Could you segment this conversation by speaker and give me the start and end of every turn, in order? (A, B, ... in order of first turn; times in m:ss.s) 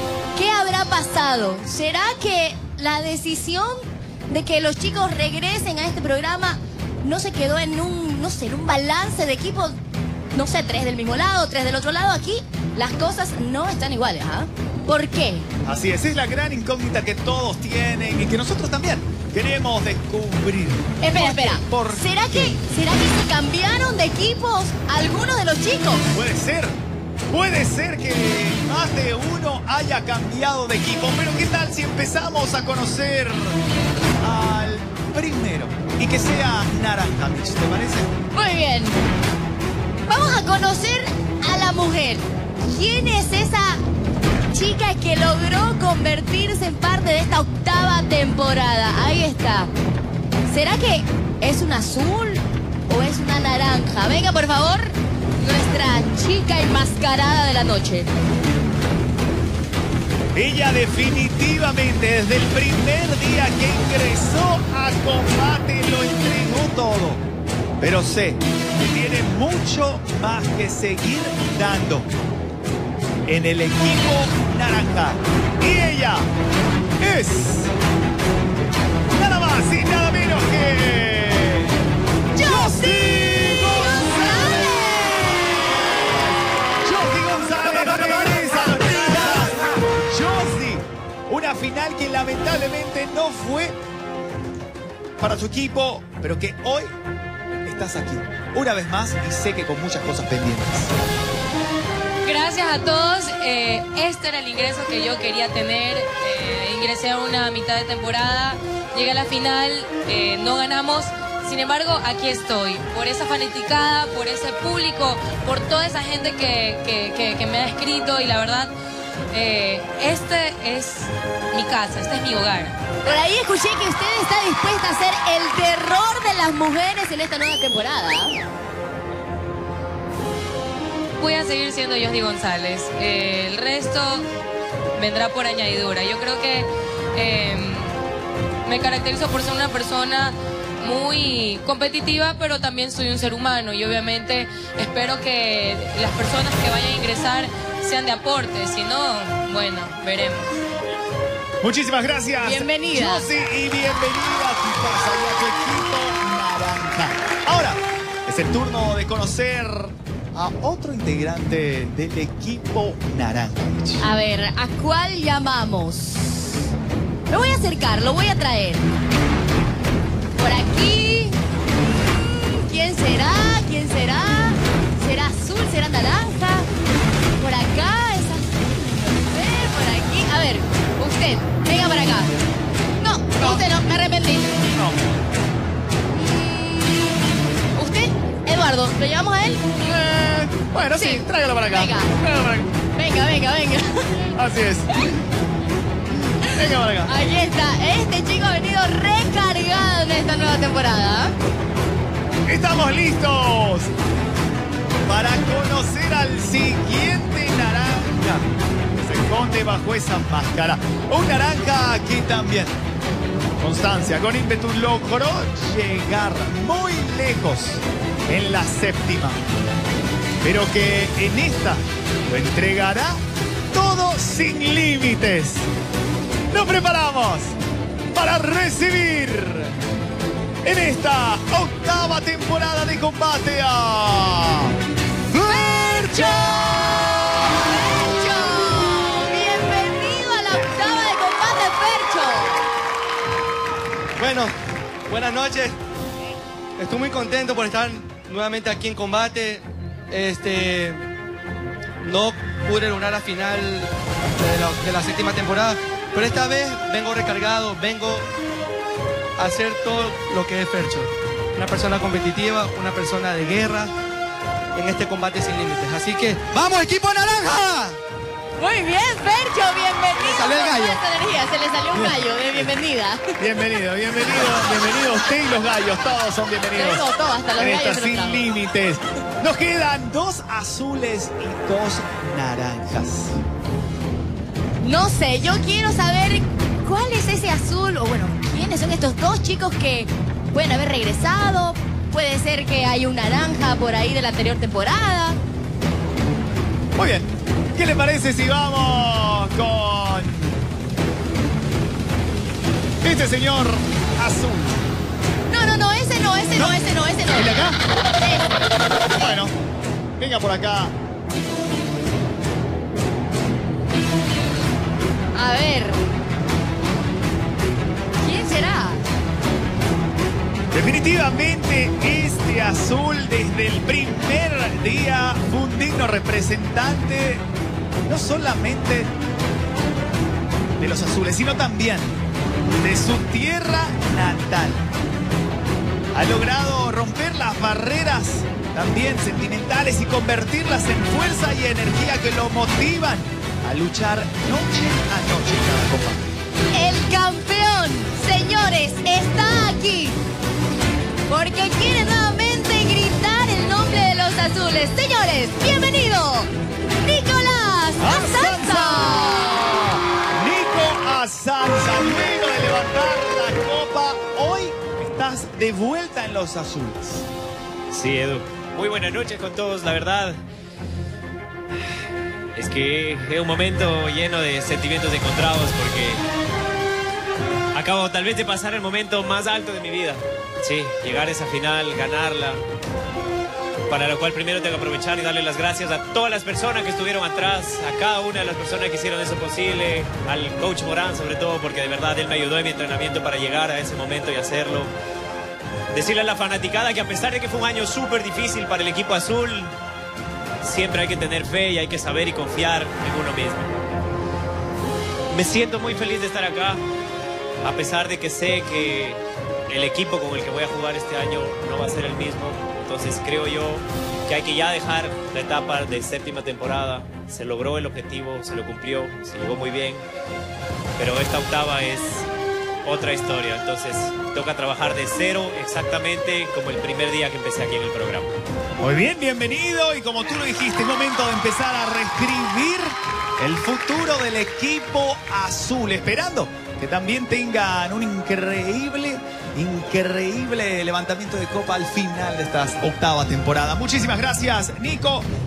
0:00.3-0:09.8 A
0:10.3-0:15.5 A
0:15.6-0:22.6 B
0:21.0-0:26.1 A
0:26.1-0:26.8 B
0:27.3-0:33.6 B
0:34.2-0:38.1 B
0:38.3-0:39.0 A
0:40.1-0:43.8 A
0:44.5-0:49.7 A
0:50.5-0:58.1 A
1:00.3-1:07.2 B
1:07.8-1:12.1 B
1:13.2-1:16.3 B
1:17.0-1:17.7 B
1:19.1-1:21.7 B
1:22.3-1:25.8 A
1:22.4-1:25.4 B
1:26.8-1:33.8 B
1:29.1-1:29.4 A
1:35.2-1:37.0 B
1:37.6-1:40.9 B
1:42.2-1:58.7 C
1:59.3-2:02.8 C
2:03.0-2:08.4 A
2:11.2-2:14.3 C
2:15.0-2:18.0 C
2:18.6-2:30.6 C
2:31.6-2:44.0 B
2:32.4-2:33.3 A
2:44.0-2:46.6 A
2:47.3-2:48.9 A
2:50.4-2:56.7 A
2:57.4-3:02.3 A
3:03.0-3:04.6 A
3:03.4-3:03.6 B
3:04.7-3:05.1 B
3:06.1-3:09.8 A
3:09.8-3:12.7 B
3:10.9-3:12.2 A
3:12.9-3:14.2 A
3:14.3-3:14.9 B
3:16.1-3:17.1 B
3:17.0-3:21.3 A
3:22.4-3:23.9 B
3:25.0-3:32.8 B
3:33.6-3:39.4 B
3:40.4-3:45.7 B
3:46.5-3:47.6 B
3:48.1-3:49.7 B
3:50.6-3:54.7 B
3:55.3-4:02.6 A
3:55.6-3:56.2 D
4:04.2-4:04.5 D
4:05.1-4:05.8 D
4:06.8-4:11.0 D
4:12.0-4:18.2 D
4:19.4-4:23.9 D
4:24.7-4:28.0 D
4:28.6-4:33.3 A
4:30.2-4:31.0 D
4:33.4-4:37.0 B
4:36.7-4:38.4 A
4:37.6-4:43.4 B
4:44.8-4:55.4 A
4:57.0-5:00.6 B
5:03.0-5:04.8 B
5:05.5-5:07.6 A
5:06.5-5:06.8 B
5:07.3-5:07.8 B
5:08.2-5:08.5 A
5:09.1-5:09.5 B
5:10.2-5:10.9 B
5:15.3-5:16.0 A
5:18.2-5:19.0 A
5:20.7-5:27.4 B
5:28.0-5:29.1 B
5:30.8-5:32.2 B
5:32.8-5:34.9 B
5:36.1-5:46.2 B
5:46.7-5:50.2 A
5:51.3-5:56.5 A
5:57.0-5:59.5 A
5:58.0-6:07.3 B
6:07.9-6:10.4 E
6:12.6-6:16.2 E
6:17.7-6:22.6 E
6:23.9-6:34.9 E
6:35.9-6:39.7 E
6:40.6-6:43.8 E
6:45.3-6:46.8 E
6:47.6-7:00.0 E
7:01.0-7:02.3 E
7:02.8-7:08.3 E
7:08.8-7:25.3 B